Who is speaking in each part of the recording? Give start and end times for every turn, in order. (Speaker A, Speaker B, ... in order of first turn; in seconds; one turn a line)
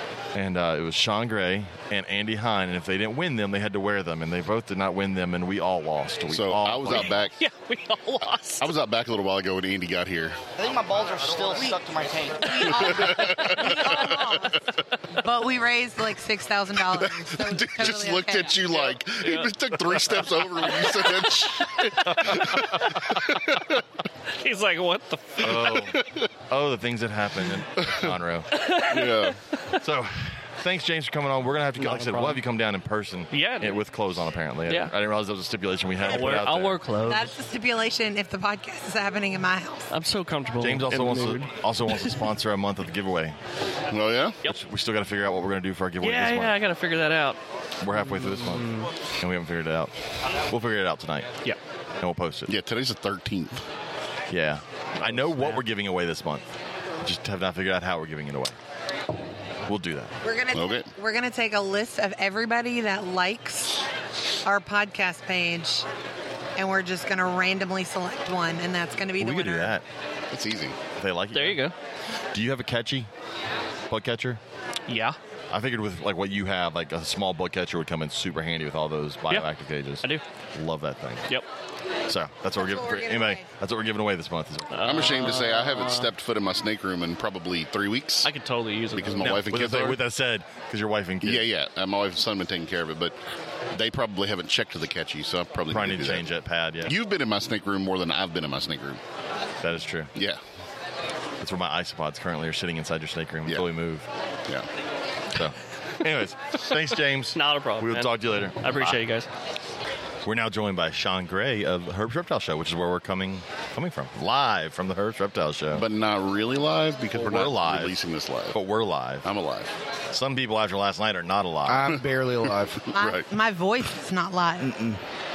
Speaker A: 0.3-7.2
Speaker B: 6.3-7.3
Speaker C: 7.0-8.7
Speaker B: 8.6-10.4
Speaker D: 10.6-13.2
Speaker E: 12.4-18.6
Speaker B: 12.7-14.2
Speaker B: 16.9-23.6
Speaker C: 18.7-21.2
Speaker C: 24.3-25.7
Speaker A: 25.4-28.5
Speaker B: 25.5-26.3
Speaker C: 28.6-29.8
Speaker B: 28.9-29.4
Speaker A: 29.8-36.8
Speaker C: 31.8-32.4
Speaker C: 33.3-33.8
Speaker C: 36.0-37.3
Speaker E: 37.0-39.9
Speaker C: 39.9-41.5
Speaker A: 40.6-43.4
Speaker B: 43.9-44.4
Speaker A: 44.5-46.6
Speaker C: 46.0-47.4
Speaker A: 47.8-49.9
Speaker C: 48.0-48.9
Speaker A: 50.5-51.4
Speaker A: 52.0-52.5
Speaker B: 52.5-53.6
Speaker A: 54.3-56.5
Speaker C: 55.3-55.6
Speaker A: 57.0-58.5
Speaker A: 59.7-60.1
Speaker E: 60.2-63.9
Speaker B: 60.5-60.9
Speaker E: 64.4-65.9
Speaker E: 66.6-69.7
Speaker A: 69.2-69.8
Speaker B: 70.3-70.8
Speaker A: 71.0-71.7
Speaker C: 71.3-71.7
Speaker A: 72.3-73.1
Speaker A: 73.9-74.4
Speaker C: 74.9-75.2
Speaker A: 75.5-81.3
Speaker A: 82.1-85.1
Speaker E: 82.6-83.4
Speaker C: 84.7-86.1
Speaker B: 84.8-88.3
Speaker C: 88.2-89.4
Speaker B: 89.0-90.0
Speaker A: 89.2-91.5
Speaker B: 91.2-93.2
Speaker B: 93.7-96.3
Speaker A: 95.7-97.0
Speaker B: 96.8-99.0
Speaker A: 99.6-100.1
Speaker A: 101.4-104.1
Speaker A: 105.3-109.0
Speaker C: 107.3-109.3
Speaker A: 110.2-115.8
Speaker B: 115.7-118.6
Speaker A: 117.1-118.0
Speaker A: 118.5-119.3
Speaker B: 119.2-119.7
Speaker A: 120.1-122.0
Speaker D: 121.7-122.9
Speaker B: 122.8-123.3
Speaker E: 122.9-124.7
Speaker D: 124.6-125.0